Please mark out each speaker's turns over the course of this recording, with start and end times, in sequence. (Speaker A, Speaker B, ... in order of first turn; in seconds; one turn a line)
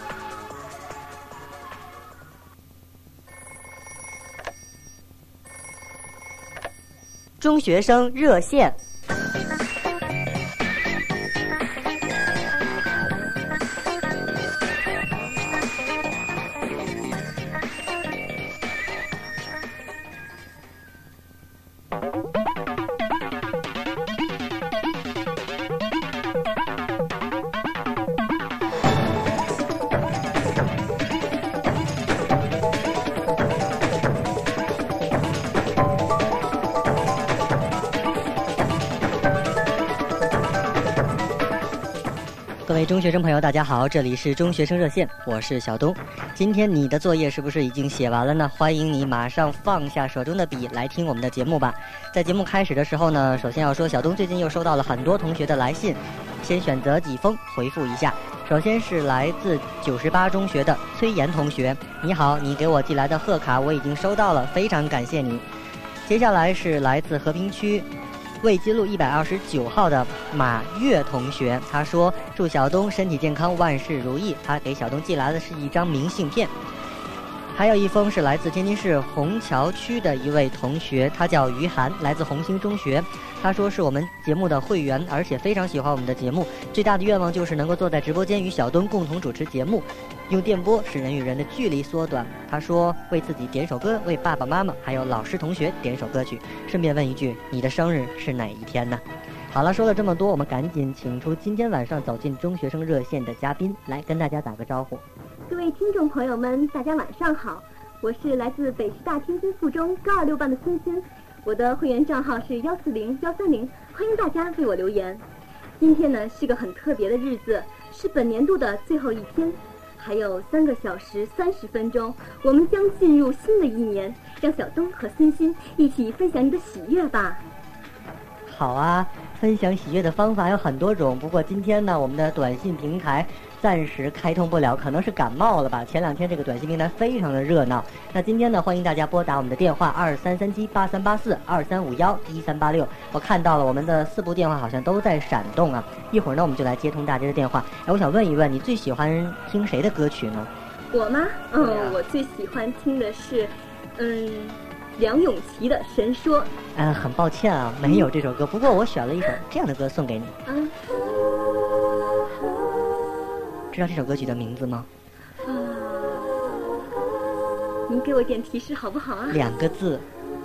Speaker A: 7.4-8.8
Speaker A: 42.7-65.4
Speaker A: 66.0-67.9
Speaker A: 68.4-76.5
Speaker A: 77.5-105.0
Speaker B: 105.5-115.2
Speaker B: 115.8-127.4
Speaker A: 128.4-150.5
Speaker B: 150.9-156.5
Speaker A: 151.6-152.0
Speaker A: 156.7-160.3
Speaker B: 160.4-160.7
Speaker A: 163.7-164.9
Speaker B: 165.4-166.8
Speaker B: 167.9-169.4
Speaker A: 169.3-170.1